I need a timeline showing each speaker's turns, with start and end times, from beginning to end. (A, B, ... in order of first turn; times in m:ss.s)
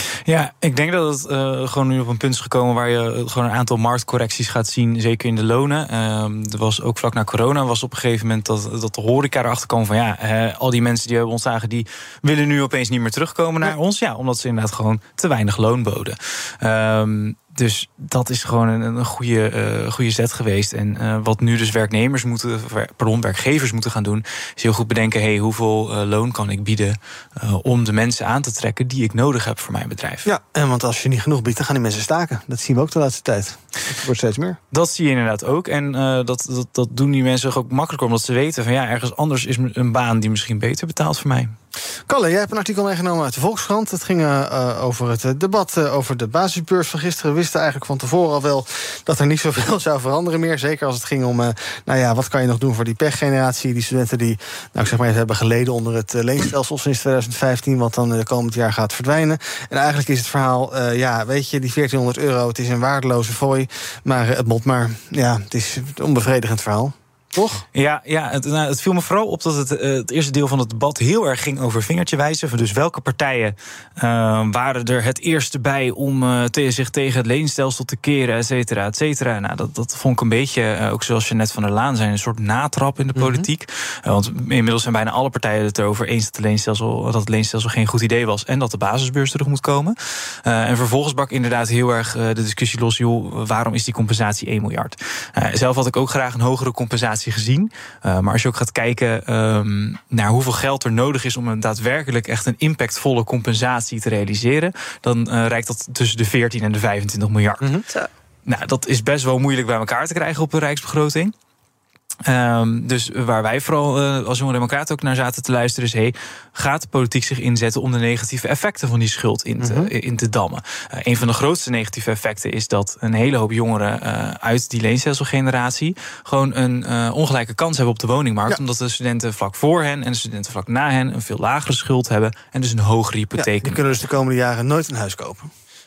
0:00.2-0:30.3 A
0:30.2-0:34.6 B
0:34.7-0:41.6 A
0:42.1-1:07.6 B
1:07.7-1:47.7 A
1:23.2-1:23.5 B
1:48.4-1:51.3 A
1:52.2-2:13.8 A
1:59.6-1:59.9 B
2:13.4-2:15.5 B